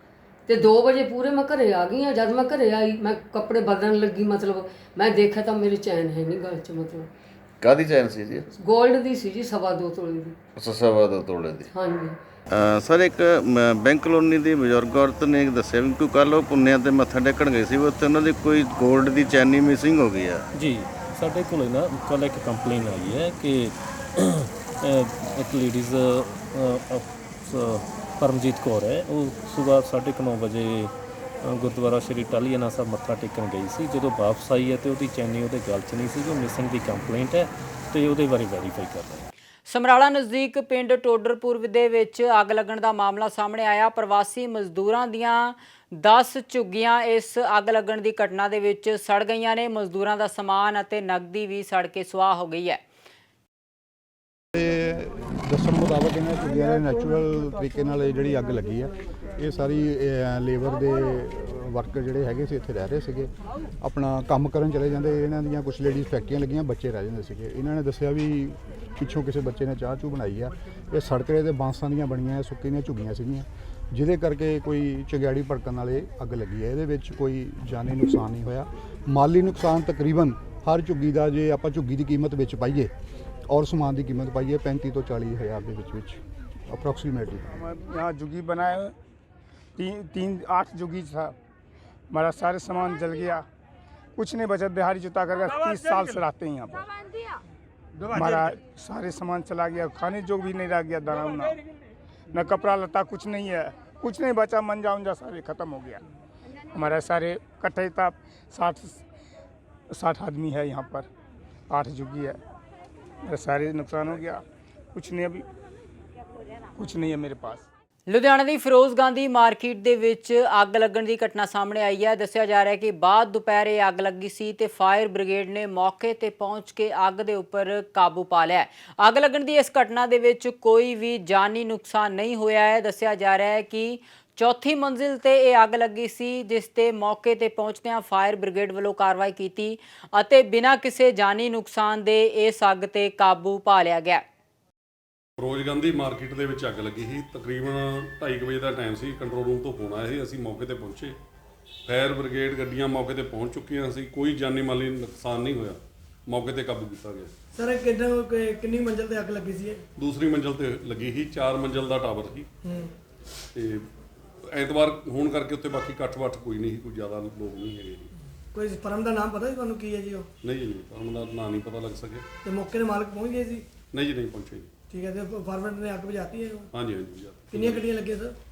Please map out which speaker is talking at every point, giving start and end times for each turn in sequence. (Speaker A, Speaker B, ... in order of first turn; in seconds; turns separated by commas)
Speaker A: 0.5-7.1, Speaker B: 7.6-8.3, Speaker C: 7.6-8.4, Speaker A: 8.5-10.4, Speaker C: 10.6-11.6, Speaker B: 11.0-11.6, Speaker A: 11.7-12.2, Speaker B: 12.9-20.4, Speaker C: 13.8-14.1, Speaker C: 15.0-20.4, Speaker D: 20.5-30.9, Speaker D: 31.4-39.3, Speaker E: 39.7-52.8, Speaker F: 54.5-82.9, Speaker F: 83.5-87.5, Speaker G: 87.8-88.9, Speaker G: 89.8-91.3, Speaker G: 92.1-93.4, Speaker G: 94.2-96.8, Speaker G: 98.2-101.5, Speaker G: 102.3-106.0, Speaker G: 106.7-109.0, Speaker G: 109.9-111.1, Speaker G: 111.7-112.4, Speaker G: 113.3-114.4, Speaker G: 114.9-115.4, Speaker G: 116.8-117.6, Speaker E: 118.1-144.2, Speaker H: 145.4-151.2, Speaker H: 151.9-157.3, Speaker I: 157.5-159.8, Speaker H: 160.0-162.5, Speaker I: 162.7-162.9, Speaker H: 163.5-163.9, Speaker H: 164.4-168.1, Speaker I: 168.5-170.3, Speaker H: 170.4-172.2, Speaker I: 172.4-173.6, Speaker H: 173.9-174.7, Speaker I: 174.9-176.7, Speaker H: 176.7-177.8, Speaker I: 177.5-178.3